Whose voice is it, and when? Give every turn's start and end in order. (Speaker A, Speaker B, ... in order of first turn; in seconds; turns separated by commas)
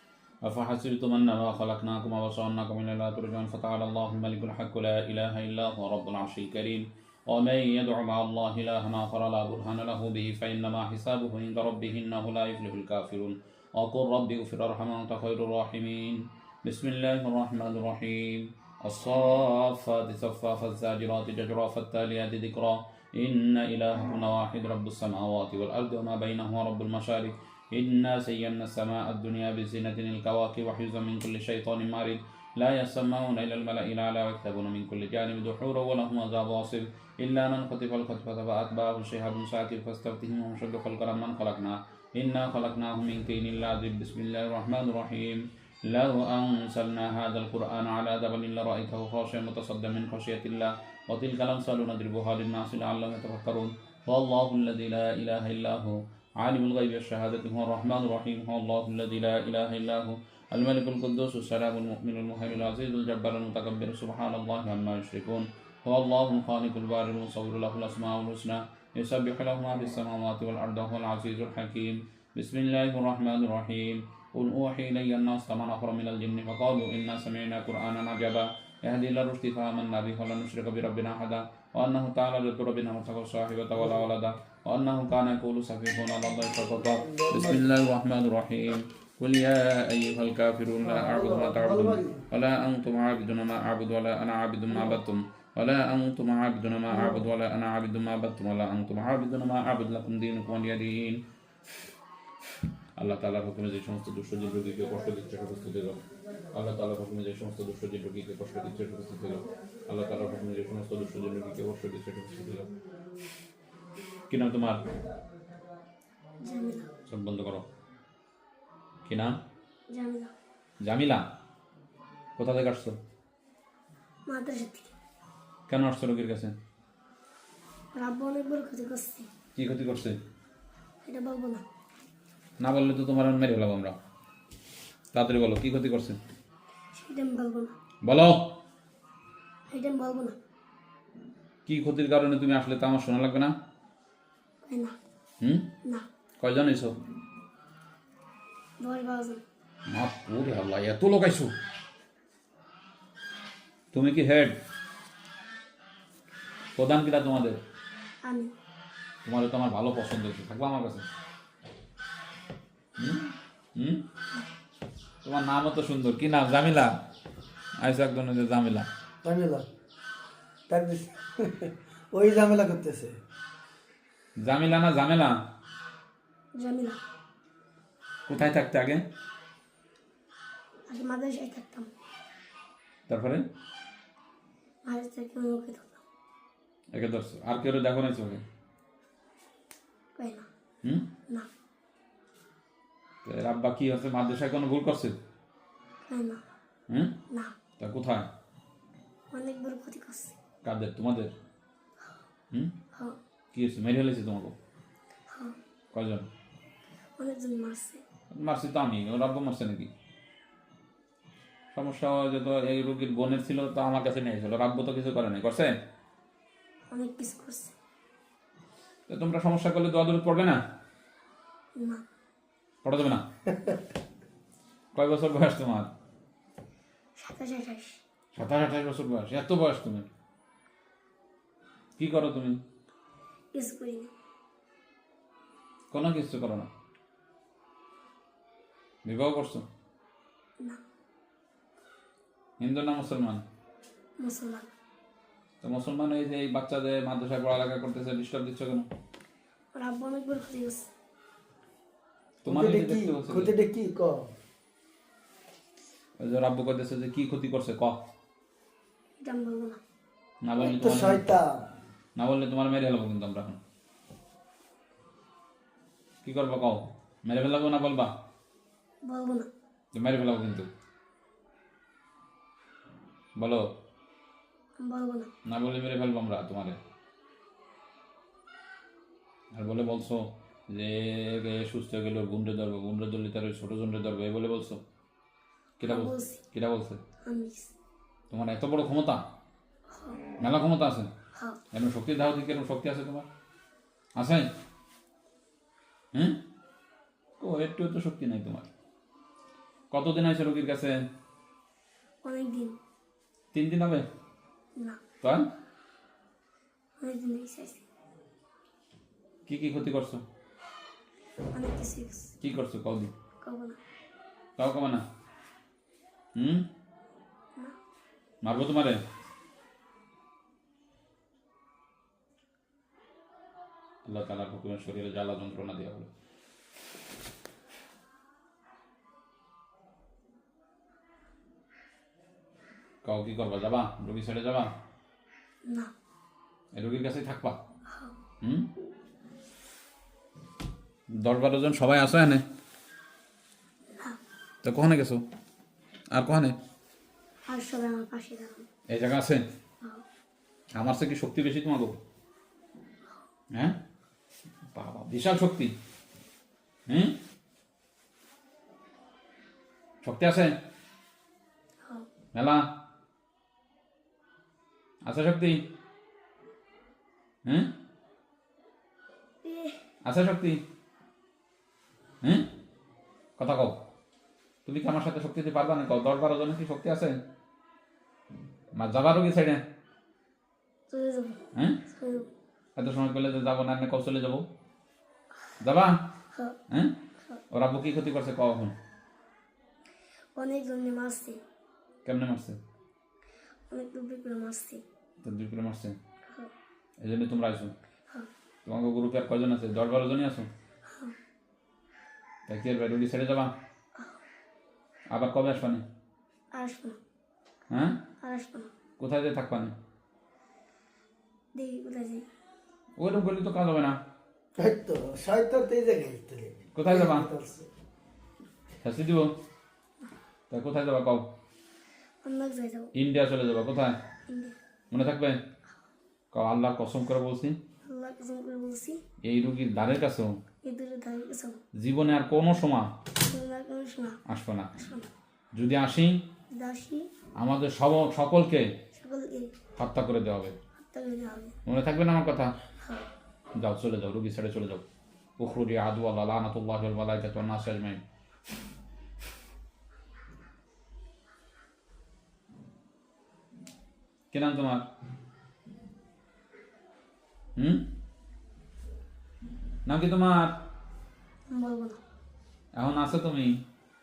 Speaker A: 0.4-101.2, Speaker B: 87.0-87.7, Speaker B: 90.8-92.2, Speaker A: 103.0-112.7, Speaker A: 114.3-114.8, Speaker C: 116.4-116.9, Speaker A: 117.1-117.7, Speaker A: 119.1-119.4, Speaker C: 119.9-120.3, Speaker A: 120.8-121.3, Speaker A: 122.4-123.0, Speaker C: 124.3-124.9, Speaker A: 125.7-126.5, Speaker C: 127.9-129.3, Speaker A: 129.6-130.2, Speaker C: 131.0-131.6, Speaker A: 132.6-134.0, Speaker A: 135.1-136.2, Speaker C: 136.9-137.7, Speaker A: 138.0-138.6, Speaker C: 139.7-140.4, Speaker A: 141.7-143.5, Speaker C: 144.7-144.9, Speaker A: 145.4-145.7, Speaker A: 146.4-147.0, Speaker C: 148.8-149.4, Speaker A: 149.9-151.5, Speaker A: 153.9-154.6, Speaker A: 156.8-157.6, Speaker C: 158.2-158.5, Speaker A: 159.2-161.1, Speaker A: 163.0-164.1, Speaker A: 165.2-166.9, Speaker A: 167.8-168.9, Speaker B: 169.2-169.7, Speaker B: 170.7-173.2, Speaker A: 174.4-175.4, Speaker C: 176.6-177.0, Speaker A: 178.3-179.0, Speaker C: 180.9-181.9, Speaker A: 183.1-183.4, Speaker C: 184.8-186.0, Speaker A: 186.9-188.4, Speaker C: 190.2-190.5, Speaker A: 193.2-195.2, Speaker C: 196.1-196.4, Speaker A: 196.9-197.2, Speaker C: 197.3-197.6, Speaker A: 197.8-198.3, Speaker C: 199.3-200.4, Speaker A: 200.6-201.3, Speaker A: 203.5-204.6, Speaker A: 205.9-206.3, Speaker C: 207.2-208.0, Speaker A: 208.3-209.9, Speaker A: 211.7-215.7, Speaker C: 216.9-217.7, Speaker A: 219.1-220.6, Speaker C: 221.8-222.0, Speaker A: 222.8-223.3, Speaker A: 224.9-225.9, Speaker C: 227.2-228.0, Speaker A: 228.3-230.1, Speaker A: 232.0-232.6, Speaker C: 233.5-234.1, Speaker A: 235.9-236.7, Speaker A: 239.1-239.7, Speaker A: 242.6-243.4, Speaker C: 244.2-244.7, Speaker A: 245.6-248.9, Speaker C: 249.8-250.9, Speaker A: 252.4-253.5, Speaker B: 252.5-254.3, Speaker A: 256.2-258.0, Speaker C: 259.2-259.8, Speaker A: 260.4-261.2, Speaker B: 260.6-261.7, Speaker A: 262.2-263.6, Speaker A: 266.2-268.1, Speaker C: 269.1-269.5, Speaker A: 269.9-270.7, Speaker A: 273.4-273.7, Speaker C: 274.8-275.3, Speaker A: 275.5-276.8, Speaker A: 279.5-284.8, Speaker A: 285.8-287.0, Speaker C: 285.8-286.4, Speaker C: 287.2-287.7, Speaker A: 288.3-289.3, Speaker C: 289.9-290.2, Speaker A: 290.4-291.1, Speaker A: 291.7-293.3, Speaker A: 294.2-294.5, Speaker A: 296.1-296.4, Speaker A: 297.4-298.7, Speaker A: 299.9-301.0, Speaker C: 302.2-302.8, Speaker A: 303.5-304.1, Speaker A: 305.2-305.5, Speaker C: 307.0-307.8, Speaker A: 309.5-310.2, Speaker C: 311.5-312.3, Speaker A: 312.4-313.1, Speaker C: 313.4-313.8, Speaker A: 314.6-315.0, Speaker A: 316.4-316.7, Speaker A: 318.4-319.0, Speaker A: 324.1-326.1, Speaker A: 333.0-334.7, Speaker C: 335.7-335.9, Speaker A: 336.7-337.6, Speaker A: 338.4-338.7, Speaker A: 341.2-342.4, Speaker A: 344.6-345.2, Speaker A: 346.1-346.6, Speaker C: 347.5-348.7, Speaker A: 348.9-349.4, Speaker A: 350.8-352.0, Speaker A: 354.7-355.7, Speaker A: 356.9-357.2, Speaker A: 360.0-360.6, Speaker A: 362.3-362.6, Speaker A: 365.1-365.7, Speaker A: 367.5-367.7, Speaker C: 369.4-369.8, Speaker A: 370.1-370.6, Speaker A: 372.2-372.5, Speaker A: 373.4-373.8, Speaker A: 374.6-377.2, Speaker A: 378.8-379.6, Speaker C: 380.9-382.3, Speaker A: 382.8-384.5, Speaker A: 385.6-386.1, Speaker A: 386.7-387.0, Speaker A: 387.5-388.8, Speaker C: 390.4-391.4, Speaker A: 392.1-392.6, Speaker C: 393.7-394.8, Speaker A: 395.2-396.0, Speaker A: 397.0-397.7, Speaker A: 398.7-400.5, Speaker C: 400.9-401.1, Speaker A: 402.5-403.5, Speaker A: 405.1-405.8, Speaker C: 406.6-407.0, Speaker A: 407.7-408.0, Speaker C: 408.2-408.7, Speaker A: 409.0-409.7, Speaker C: 411.6-412.3, Speaker A: 413.0-414.0, Speaker B: 414.6-417.7, Speaker A: 416.8-417.3, Speaker A: 418.8-419.4, Speaker A: 420.5-421.3, Speaker C: 422.2-422.9, Speaker A: 422.9-424.0, Speaker C: 424.3-424.6, Speaker A: 424.9-425.4, Speaker A: 426.3-427.6, Speaker C: 427.9-429.0, Speaker A: 429.2-430.3, Speaker C: 430.6-431.6, Speaker A: 431.8-432.9, Speaker C: 433.2-434.2, Speaker A: 434.3-434.8, Speaker C: 434.8-435.1, Speaker A: 435.6-436.2, Speaker C: 436.6-437.1, Speaker A: 437.4-438.7, Speaker C: 438.9-439.5, Speaker A: 439.8-440.6, Speaker C: 440.8-441.6, Speaker A: 441.7-442.6, Speaker A: 443.6-444.8, Speaker A: 445.4-448.0, Speaker A: 454.3-454.9, Speaker A: 457.6-457.9, Speaker A: 459.9-460.6, Speaker C: 461.5-462.0, Speaker A: 462.8-463.6